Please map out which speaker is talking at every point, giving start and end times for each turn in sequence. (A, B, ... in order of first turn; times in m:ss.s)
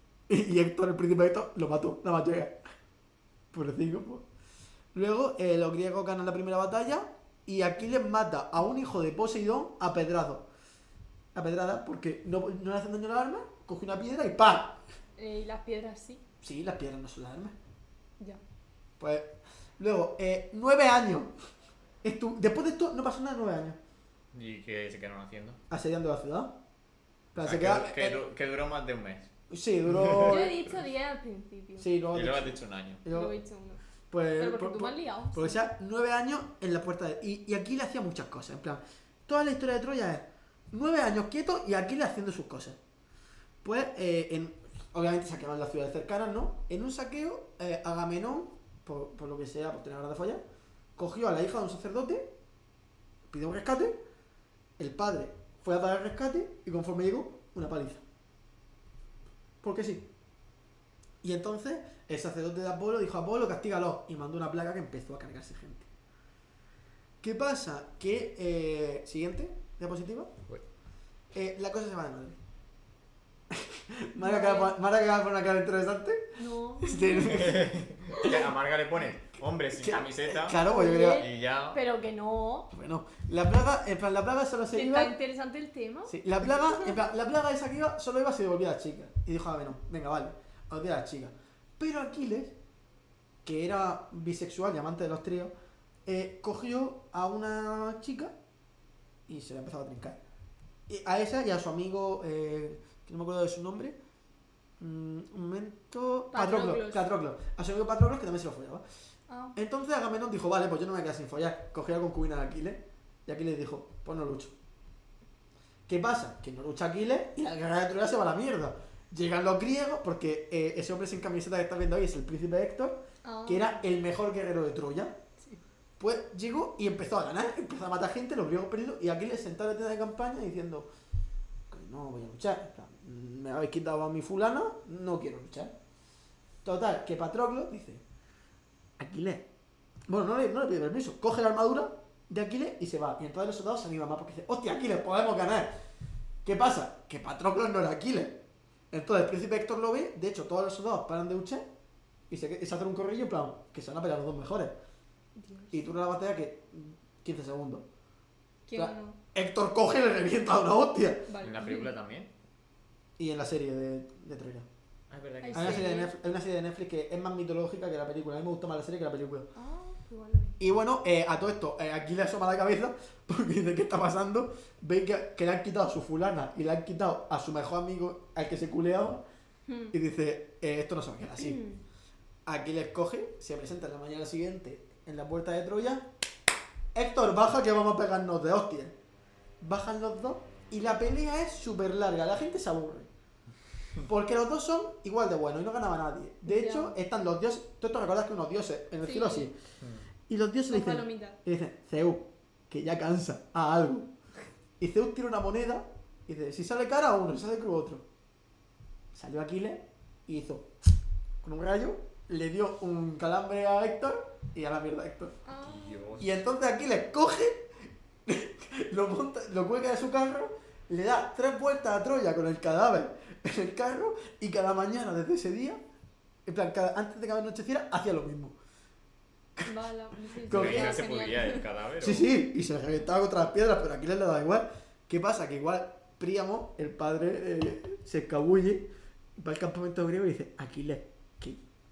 0:00.3-0:02.6 A
0:03.5-0:04.3 A
0:04.9-0:10.5 A
0:11.3-0:14.8 A
0:15.2-0:16.2 B
0:16.4-0:17.6 A
0:19.0-0:21.3 A
0:22.0-0:23.8 A
0:24.3-0:25.6 C
0:25.7-0:26.6 A
0:27.3-0:28.2 A
0:27.4-0:29.3 C
0:29.5-0:30.6 A
0:30.0-0:30.5 C
0:30.2-0:31.9 B
0:31.8-0:33.4 A
0:32.1-0:33.0 C
0:33.1-0:33.8 B
0:34.1-0:42.8 A
0:34.4-0:35.6 B
0:43.6-0:50.4 A
0:51.0-0:52.4 A
0:53.3-0:54.0 A
0:54.8-0:58.0 A
0:59.6-1:00.1 A
1:01.2-1:05.9 A
1:07.2-1:10.3 A
1:11.3-1:12.4 A
1:13.5-1:18.5 A
1:14.2-1:14.7 B
1:16.4-1:17.6 B
1:17.2-1:21.8 C
1:19.7-1:21.3 A
1:20.6-1:22.7 B
1:22.7-1:25.1 A
1:24.7-1:27.0 B
1:26.1-1:32.6 A
1:33.4-1:35.5 A
1:36.1-1:38.4 A
1:39.3-1:40.2 A
1:40.9-1:44.0 A
1:44.8-1:48.8 A
1:46.3-1:47.1 B
1:49.3-1:49.6 B
1:49.6-1:54.5 A
1:55.9-2:05.2 A
2:03.2-2:03.8 B
2:06.0-2:10.9 A
2:11.7-2:15.8 A
2:16.6-2:18.0 A
2:19.0-2:19.5 A
2:20.1-2:25.7 A
2:26.4-2:31.7 A
2:32.3-2:34.8 A
2:35.4-2:35.9 B
2:35.7-2:37.9 A
2:38.7-2:39.2 B
2:38.8-2:41.3 A
2:41.3-2:41.9 B
2:41.4-2:42.3 C
2:43.2-2:44.7 A
2:45.1-2:45.9 C
2:45.4-2:46.1 B
2:45.5-2:49.5 A
2:49.6-2:50.6 B
2:50.6-2:59.2 A
2:59.7-2:59.9 B
2:59.9-3:01.6 A
3:01.4-3:01.8 B
3:02.5-3:06.1 A
3:06.9-3:09.0 A
3:09.6-3:13.1 A
3:14.0-3:19.6 A
3:16.4-3:17.0 B
3:19.0-3:19.5 B
3:20.3-3:24.1 A
3:20.7-3:21.4 B
3:24.8-3:28.0 A
3:29.1-3:30.7 A
3:31.4-3:35.4 A
3:35.4-3:36.0 B
3:35.6-3:36.4 C
3:36.2-3:37.7 A
3:38.3-3:45.8 A
3:46.5-3:48.6 A
3:49.6-3:51.6 B
3:50.4-3:51.0 A
3:50.5-3:52.3 C
3:52.0-4:01.6 A